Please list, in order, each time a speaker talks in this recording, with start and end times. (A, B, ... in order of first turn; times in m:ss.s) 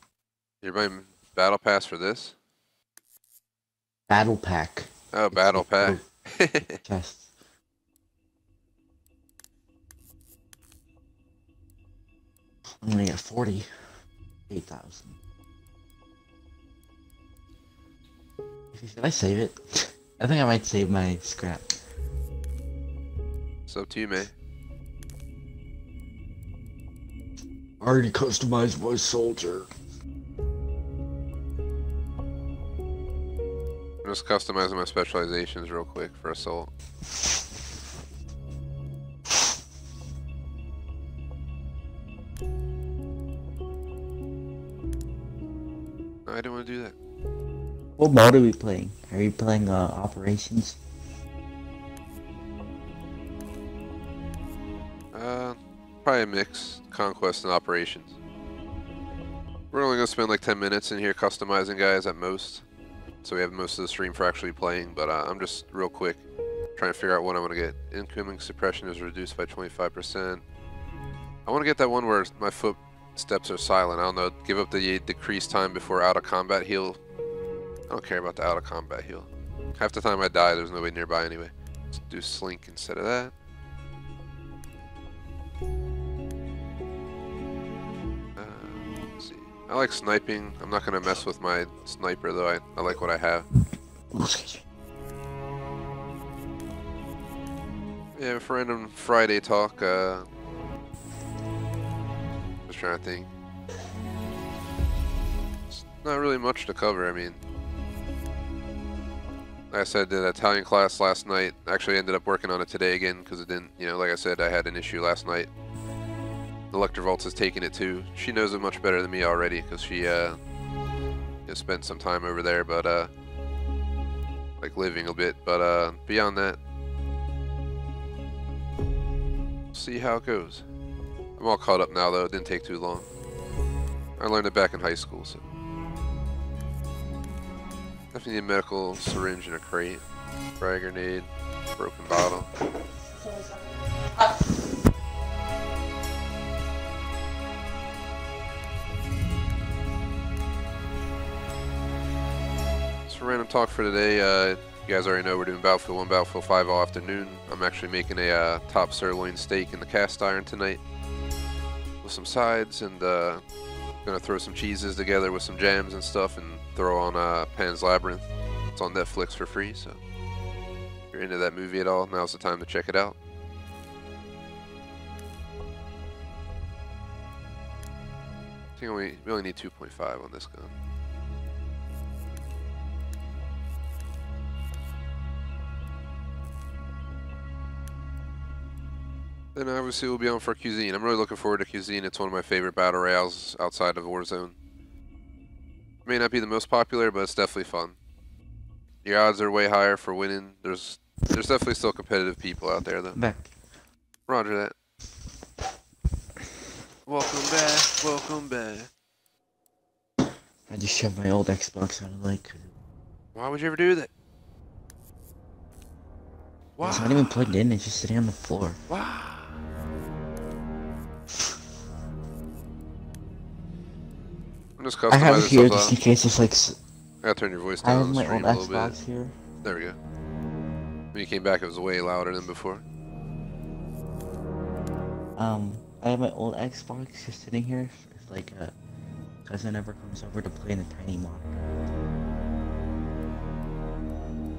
0:00.6-0:02.3 A
0:04.1-0:06.0 B
0:05.1-0:06.8 A
0:06.8-0:07.3 B
0:12.7-0:13.7 B
0:14.5-0:15.2 B
0:18.7-0:21.8 B
0:23.7-0:24.3 A
0:27.8-0:29.7 B
0:34.0-0:36.7 A
0:46.2-0:46.9 A
0:48.0-0:50.8 B
0:55.1-0:58.1 A
0:59.7-1:02.6 A
1:03.2-1:06.2 A
1:06.8-1:10.4 A
1:11.4-1:17.0 A
1:17.9-1:23.3 A
1:28.4-1:33.4 A
1:34.1-1:34.6 B
1:38.2-1:40.2 A
1:42.7-1:43.3 A
1:45.7-1:47.4 A
1:49.7-1:55.5 A
1:56.7-2:00.4 A
2:01.5-2:03.1 A
2:04.6-2:06.6 A
2:09.7-2:10.6 A
2:11.4-2:13.1 A
2:14.2-2:15.4 A
2:18.1-2:20.0 A
2:20.6-2:22.5 A
2:33.1-2:40.8 A
2:42.0-2:43.4 A
2:44.0-2:50.0 A
2:51.1-2:53.2 A
2:58.8-3:00.7 A
3:09.5-3:14.5 A
3:16.0-3:17.9 A
3:19.0-3:23.2 A
3:23.1-3:23.5 B
3:24.3-3:24.7 A
3:27.1-3:28.9 A
3:30.7-3:32.7 B
3:33.3-3:34.1 A
3:36.8-3:37.5 A
3:36.8-3:38.8 B
3:38.9-3:39.5 A
3:44.8-3:45.9 A
3:45.1-3:46.8 B
3:47.2-3:49.0 A
3:47.8-3:49.3 B
3:49.6-3:50.0 A
3:51.1-3:52.8 A
3:55.4-3:58.7 B
3:59.4-4:01.6 B